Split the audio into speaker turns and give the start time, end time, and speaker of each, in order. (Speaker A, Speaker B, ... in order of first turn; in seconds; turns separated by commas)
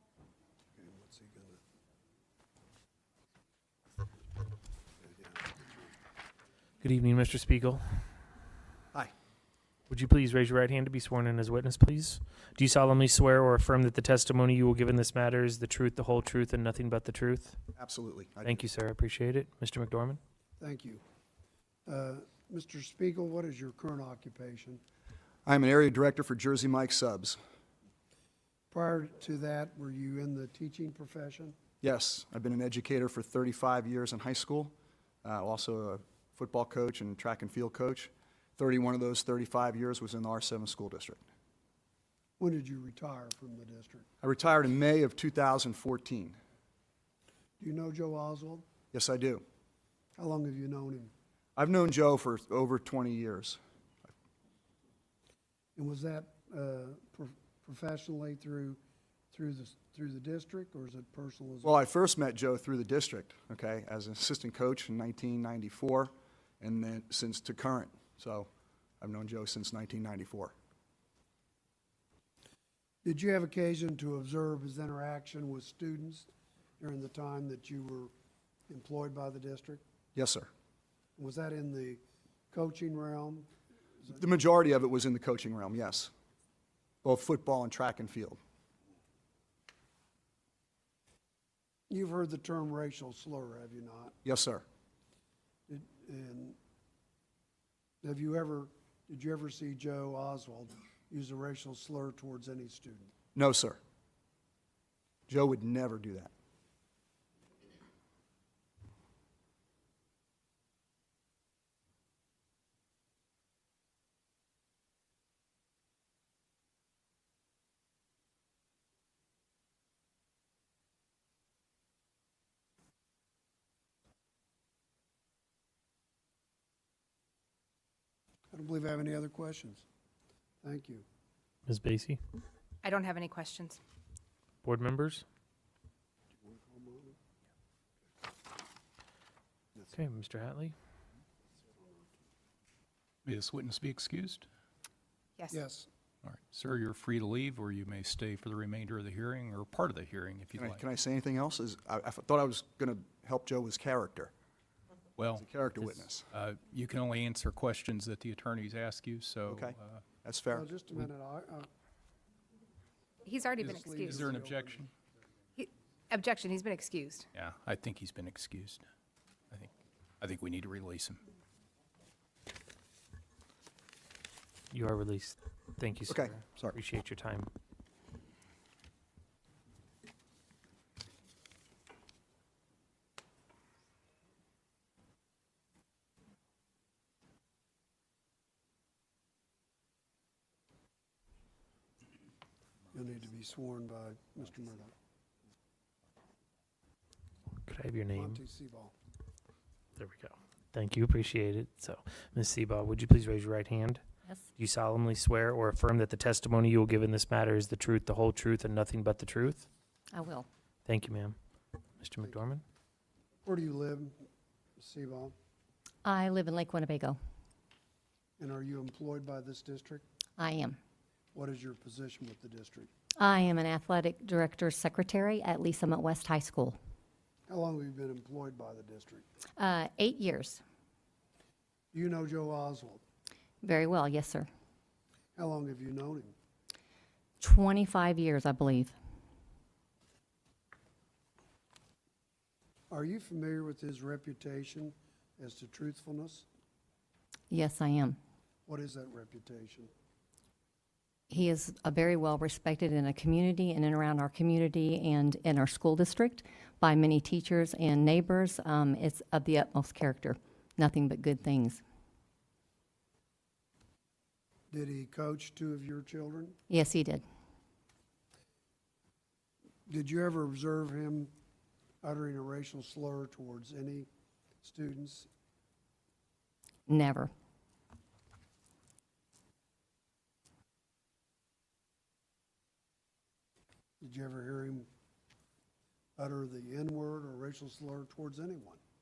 Speaker A: 0.7-1.6, Speaker A: 5.0-5.8, Speaker B: 6.8-8.0, Speaker B: 9.9-17.6, Speaker C: 17.8-18.7, Speaker B: 18.4-20.2, Speaker A: 20.6-21.0, Speaker A: 21.9-24.8, Speaker C: 25.4-27.4, Speaker A: 28.7-31.6, Speaker C: 31.8-41.2, Speaker A: 42.4-44.1, Speaker C: 44.2-46.4, Speaker A: 47.6-48.6, Speaker C: 48.9-49.4, Speaker A: 50.1-51.1, Speaker C: 51.5-53.6, Speaker A: 55.8-58.8, Speaker A: 59.3-61.8, Speaker C: 61.6-68.5, Speaker C: 69.0-70.5, Speaker A: 73.0-78.1, Speaker A: 78.7-79.8, Speaker C: 80.1-80.5, Speaker A: 81.2-83.5, Speaker C: 84.1-86.1, Speaker C: 87.0-88.4, Speaker A: 91.9-94.1, Speaker C: 94.2-94.6, Speaker A: 95.7-96.6, Speaker A: 98.0-103.1, Speaker C: 103.3-103.8, Speaker C: 105.3-106.3, Speaker A: 128.5-129.8, Speaker A: 130.6-131.0, Speaker B: 131.7-132.2, Speaker D: 132.8-133.8, Speaker B: 134.6-135.2, Speaker A: 136.4-137.2, Speaker B: 139.9-140.7, Speaker E: 143.2-144.5, Speaker A: 145.5-145.9, Speaker E: 146.2-150.8, Speaker C: 150.5-154.3, Speaker E: 155.2-160.0, Speaker C: 155.3-156.3, Speaker C: 159.4-160.7, Speaker A: 160.5-161.7, Speaker D: 163.2-164.2, Speaker A: 163.6-164.9, Speaker E: 163.6-164.9, Speaker D: 165.6-167.2, Speaker E: 167.3-168.8, Speaker E: 169.5-171.2, Speaker B: 174.7-177.5, Speaker C: 176.1-176.8, Speaker A: 192.9-194.9, Speaker B: 197.7-198.4, Speaker A: 198.1-198.9, Speaker B: 200.0-204.0, Speaker B: 204.6-209.7, Speaker F: 210.1-210.5, Speaker B: 210.9-211.4, Speaker B: 212.0-212.6, Speaker A: 213.4-214.2, Speaker A: 214.8-215.3, Speaker F: 216.0-217.2, Speaker A: 218.4-220.0, Speaker F: 220.4-220.8, Speaker A: 221.3-222.9, Speaker F: 223.2-226.8, Speaker A: 227.5-229.2, Speaker F: 229.6-230.6, Speaker A: 231.9-233.0, Speaker F: 233.6-234.5, Speaker A: 235.3-236.3, Speaker F: 237.4-238.9, Speaker A: 242.9-246.5, Speaker F: 247.5-248.2, Speaker A: 248.7-249.9, Speaker F: 251.3-261.8, Speaker A: 264.7-266.6, Speaker F: 266.7-267.2, Speaker A: 269.9-271.3, Speaker A: 272.0-274.1, Speaker A: 274.6-275.3, Speaker F: 276.9-277.3, Speaker A: 284.0-284.9, Speaker A: 286.2-288.8